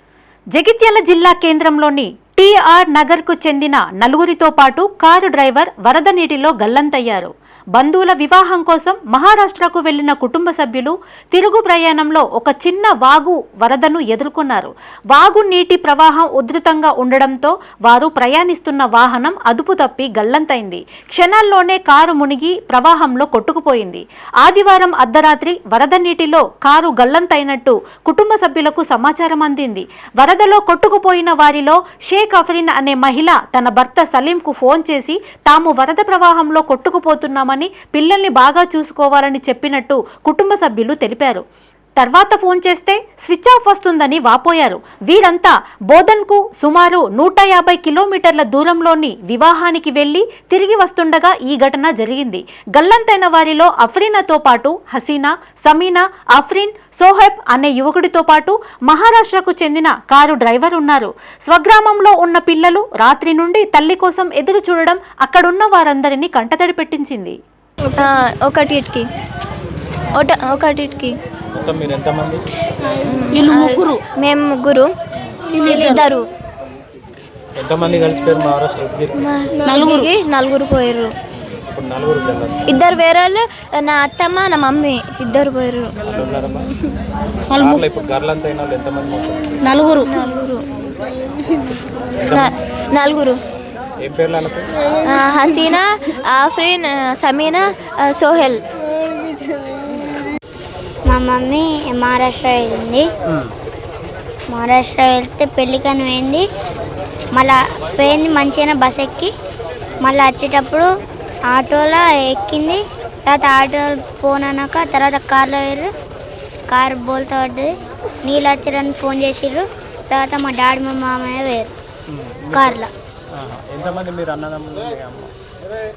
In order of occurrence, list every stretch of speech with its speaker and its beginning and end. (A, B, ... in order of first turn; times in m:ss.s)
0:00.5-0:41.4 A
0:42.0-1:07.4 A
1:08.0-1:09.0 B
1:10.1-1:11.1 B
1:11.5-1:12.4 C
1:13.0-1:14.9 B
1:13.3-1:14.0 D
1:15.2-1:15.4 C
1:15.5-1:16.2 B
1:15.6-1:15.9 D
1:17.6-1:19.2 C
1:19.2-1:21.1 B
1:19.6-1:20.1 D
1:21.4-1:22.6 C
1:22.7-1:25.9 B
1:26.0-1:26.7 C
1:27.5-1:29.6 C
1:29.6-1:30.1 D
1:30.0-1:30.6 B
1:32.2-1:32.5 C
1:32.3-1:33.4 B
1:34.0-1:34.7 C
1:35.0-1:38.6 B
1:41.1-1:43.0 E
1:44.5-1:46.4 E
1:47.3-1:49.3 E
1:50.0-1:50.9 E
1:51.5-1:55.9 E
1:56.7-1:57.7 E
1:58.2-2:01.7 E
2:02.1-2:02.8 C
2:02.5-2:02.9 E
2:03.3-2:05.3 C